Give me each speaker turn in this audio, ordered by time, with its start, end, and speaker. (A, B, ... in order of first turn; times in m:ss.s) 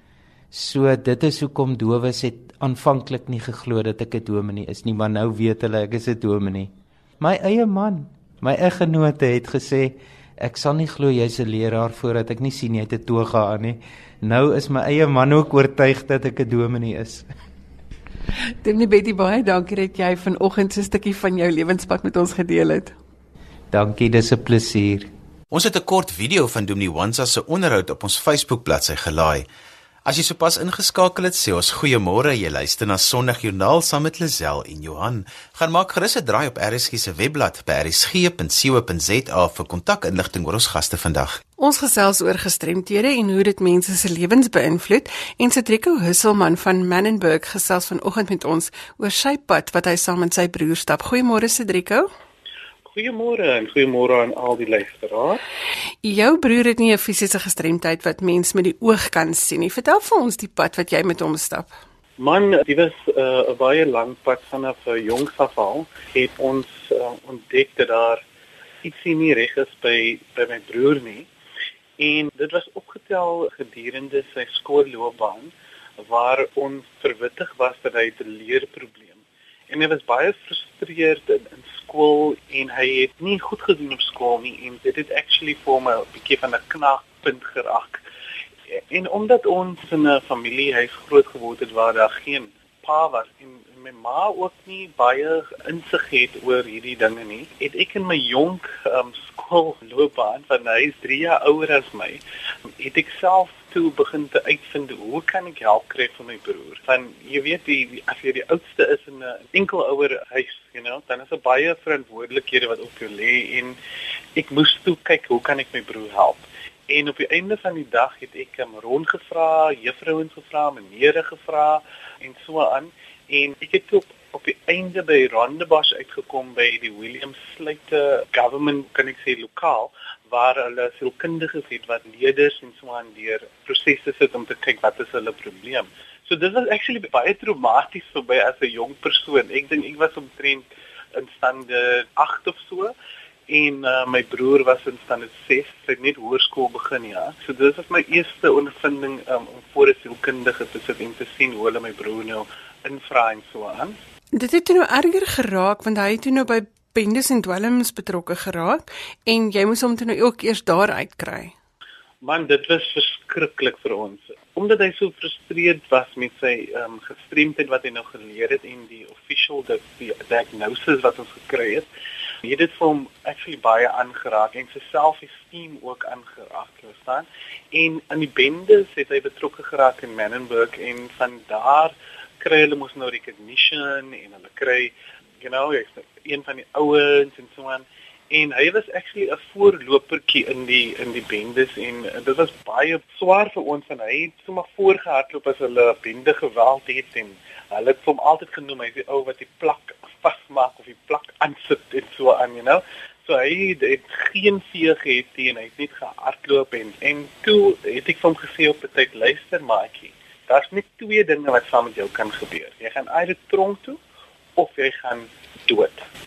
0:00.5-0:17.2 A
0:18.6-0:23.0 B
0:23.7-0:25.1 A
0:25.5-0:29.4 C
0:30.0-0:41.4 C
0:41.6-0:52.1 B
0:52.8-0:55.4 D
0:56.0-1:01.7 B
1:02.2-1:08.2 D
1:08.8-1:11.3 D
1:12.0-1:28.0 D
1:28.8-1:42.2 D
1:42.8-1:53.8 D
1:54.3-2:22.9 D
2:23.5-2:34.0 D
2:34.3-2:41.5 B
2:42.2-2:51.9 D
2:52.4-3:34.0 D
3:34.6-3:36.0 D